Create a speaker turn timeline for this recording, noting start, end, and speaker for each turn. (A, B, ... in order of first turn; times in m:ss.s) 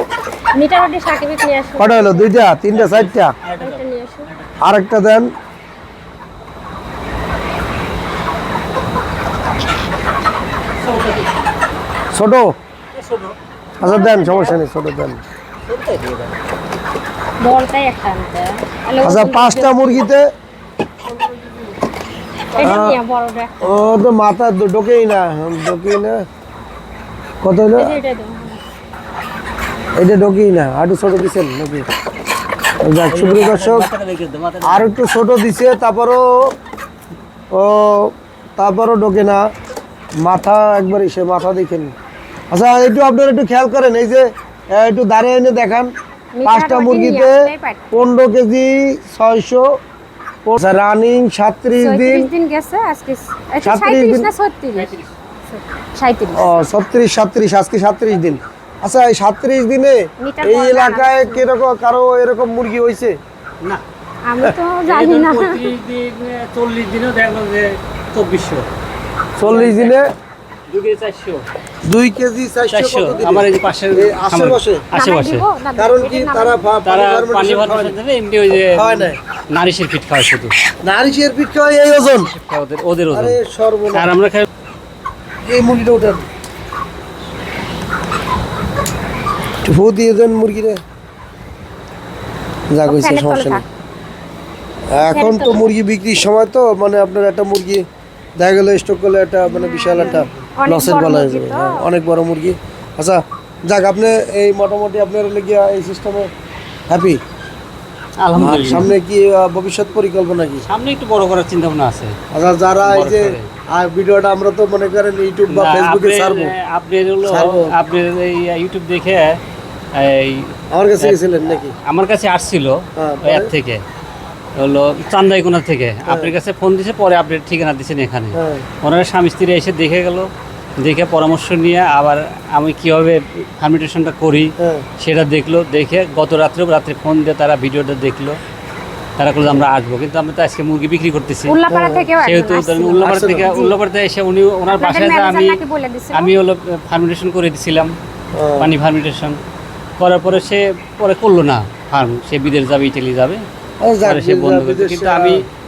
0:00.5-0:02.3 A
0:01.8-0:03.4 B
0:02.7-0:04.5 C
0:03.6-0:04.3 A
0:04.6-0:05.3 B
0:10.8-0:11.2 C
0:12.1-0:12.5 B
0:12.9-0:13.4 C
0:13.8-0:15.2 B
0:13.8-0:14.6 A
0:15.6-0:16.3 C
0:17.4-0:20.0 A
0:19.0-0:20.3 B
0:22.6-0:23.9 A
0:22.6-0:23.0 B
0:23.6-0:26.2 B
0:27.4-0:28.0 B
0:27.8-0:28.6 A
0:30.0-0:31.9 B
0:32.8-0:33.9 B
0:33.1-0:35.0 C
0:34.6-0:36.5 B
0:37.5-0:39.4 B
0:40.2-0:41.9 B
0:42.5-0:45.9 B
0:46.3-0:47.9 A
0:46.4-0:49.8 B
0:50.4-0:52.3 B
0:51.8-0:54.9 A
0:53.6-0:54.3 B
0:54.8-0:55.2 C
0:55.4-0:56.5 A
0:56.3-1:03.2 B
1:00.2-1:01.4 A
1:04.2-1:05.7 A
1:04.8-1:08.7 C
1:09.4-1:10.1 B
1:09.4-1:10.1 C
1:10.7-1:11.5 C
1:11.9-1:14.9 B
1:12.7-1:15.5 C
1:14.9-1:16.7 A
1:15.8-1:18.0 B
1:16.8-1:20.6 C
1:18.7-1:19.2 B
1:20.8-1:22.3 B
1:22.0-1:23.4 C
1:23.1-1:24.1 B
1:23.9-1:24.5 C
1:25.5-1:26.2 B
1:29.6-1:30.8 B
1:32.7-1:33.6 B
1:32.8-1:33.6 A
1:34.9-1:37.8 B
1:35.0-1:35.7 A
1:38.4-1:46.3 B
1:39.4-1:41.9 A
1:46.9-1:47.2 B
1:48.2-1:48.9 C
1:48.4-1:50.7 B
1:50.7-1:52.2 C
1:52.3-1:56.5 B
1:52.8-1:53.5 C
1:55.5-1:59.4 C
1:57.2-1:57.7 B
1:59.9-2:03.8 C
2:00.7-2:01.7 B
2:03.0-2:03.5 B
2:04.6-2:18.4 C
2:06.1-2:06.3 B
2:08.3-2:08.7 B
2:14.6-2:14.8 B
2:19.2-2:21.6 C
2:21.4-2:23.7 A
2:21.7-2:22.1 B
2:22.2-2:27.9 C
2:23.0-2:23.5 B
2:24.7-2:26.3 A
2:28.3-2:28.7 B
2:28.6-2:29.4 C
2:30.0-2:33.4 C
2:33.8-2:35.4 B
2:34.0-2:35.4 C